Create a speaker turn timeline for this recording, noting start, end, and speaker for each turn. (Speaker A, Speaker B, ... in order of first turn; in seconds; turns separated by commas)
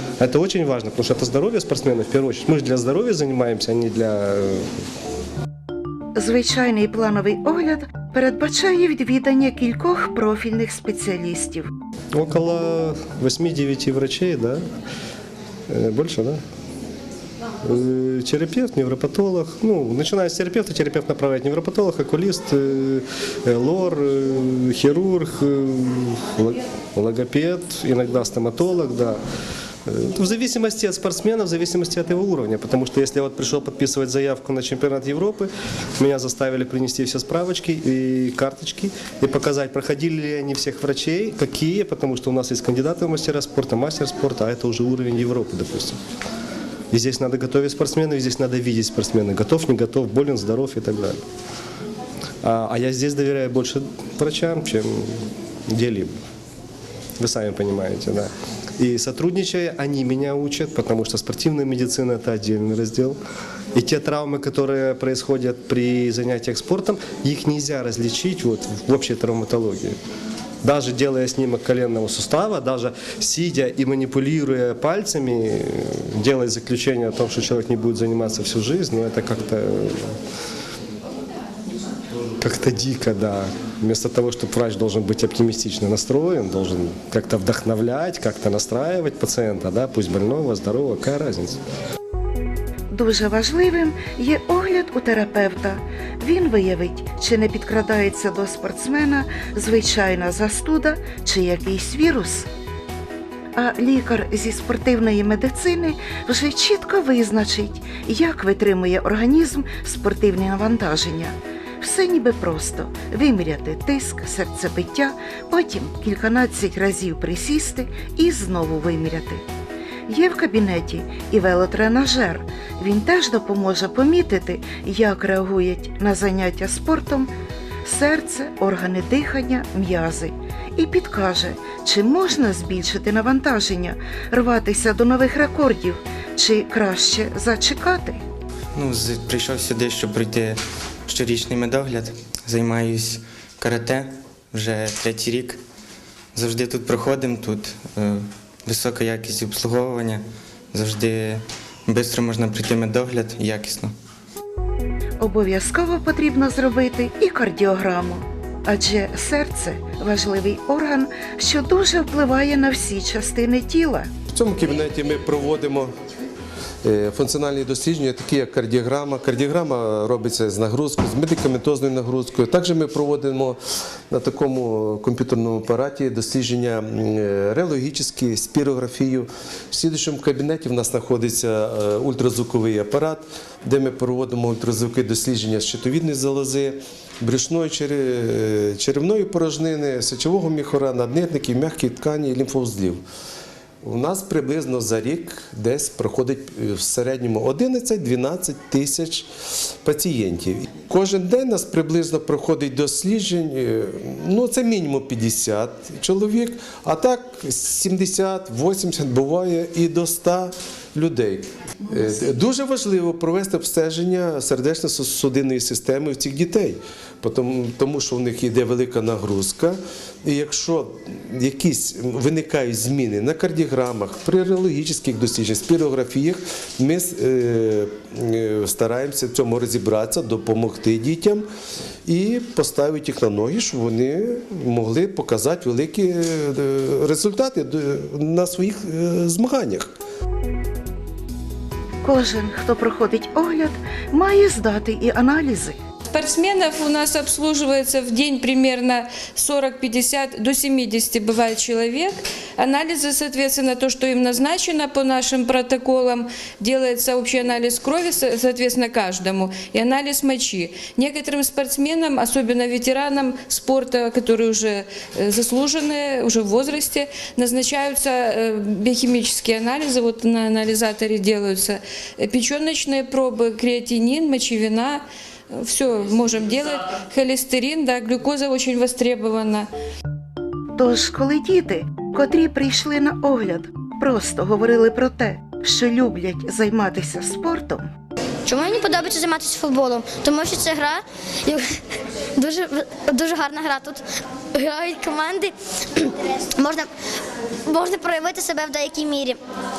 Speaker A: 0.2-4.7, Speaker B: 6.2-11.7, Speaker A: 12.1-14.6, Speaker A: 15.7-16.4, Speaker A: 17.6-29.2, Speaker A: 29.9-46.0, Speaker A: 46.9-51.2, Speaker A: 52.4-56.1, Speaker A: 57.2-63.2, Speaker A: 63.7-70.0, Speaker A: 70.6-80.1, Speaker A: 82.4-91.6, Speaker B: 92.9-102.5, Speaker B: 103.6-119.5, Speaker B: 120.1-127.3, Speaker B: 127.8-138.2, Speaker C: 138.8-145.6, Speaker C: 146.3-153.9, Speaker B: 155.2-164.1, Speaker D: 164.3-165.9, Speaker D: 166.8-173.6, Speaker D: 174.1-193.0, Speaker D: 193.8-199.3, Speaker D: 199.8-231.5, Speaker D: 232.1-239.9, Speaker B: 242.0-245.8, Speaker E: 246.1-279.7, Speaker B: 280.8-287.9, Speaker F: 288.5-291.6, Speaker F: 292.4-294.0, Speaker F: 294.5-296.9, Speaker F: 297.7-299.4